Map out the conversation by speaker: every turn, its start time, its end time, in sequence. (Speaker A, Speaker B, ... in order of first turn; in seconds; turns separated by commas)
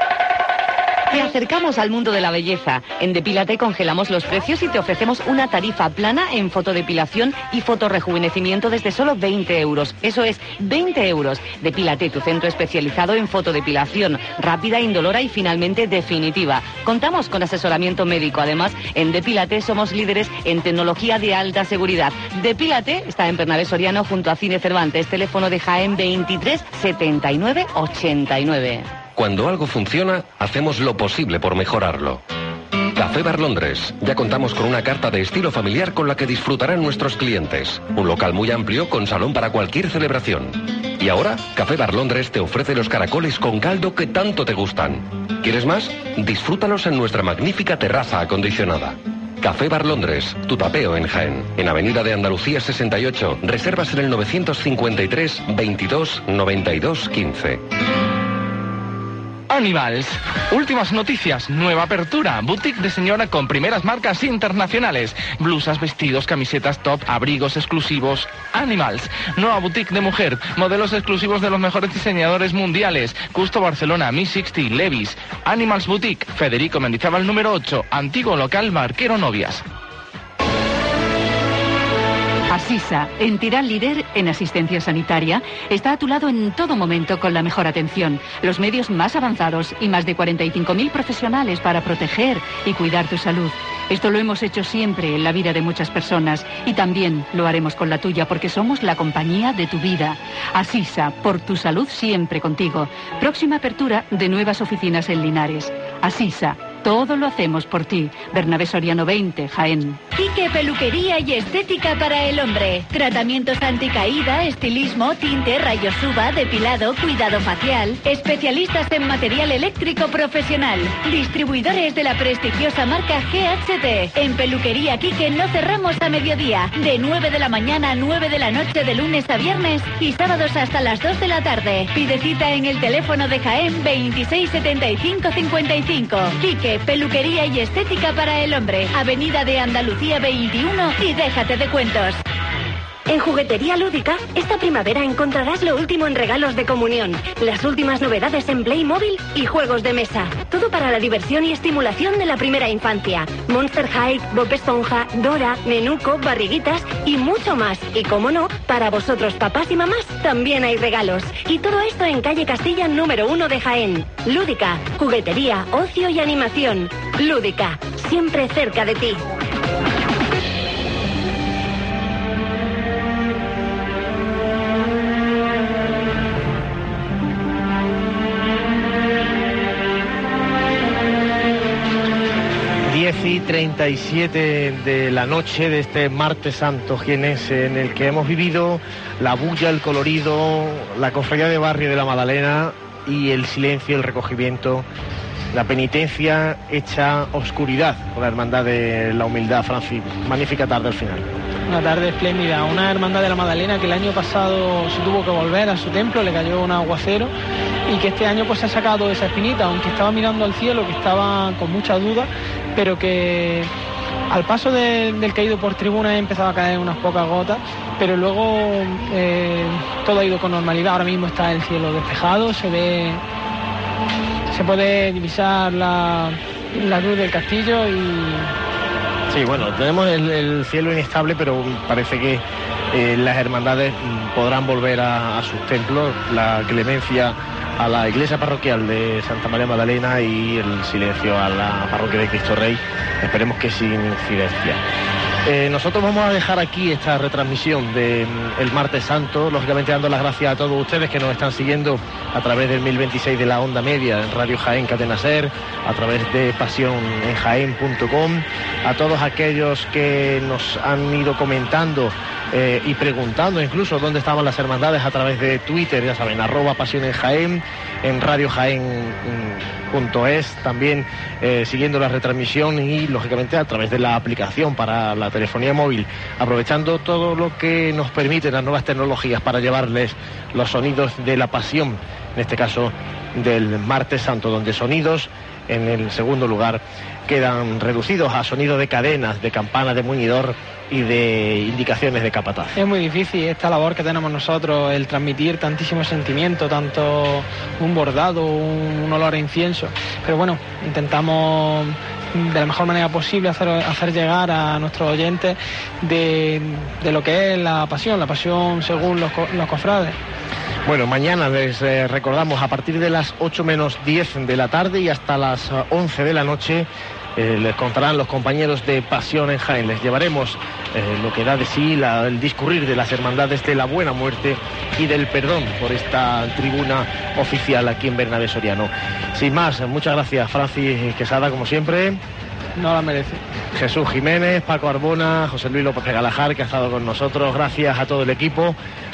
Speaker A: 1.1-28.9, Speaker B: 29.1-32.2, Speaker B: 32.9-57.6, Speaker C: 59.5-79.6, Speaker D: 82.5-110.0, Speaker E: 110.1-142.2, Speaker F: 143.1-169.2, Speaker G: 182.8-194.8, Speaker G: 195.5-201.3, Speaker H: 201.7-207.3, Speaker H: 207.9-213.7, Speaker H: 214.3-223.2, Speaker H: 224.5-228.5, Speaker G: 229.3-244.8, Speaker G: 245.4-292.8, Speaker H: 292.8-310.1, Speaker G: 310.8-332.2, Speaker H: 332.8-333.4, Speaker G: 333.7-338.8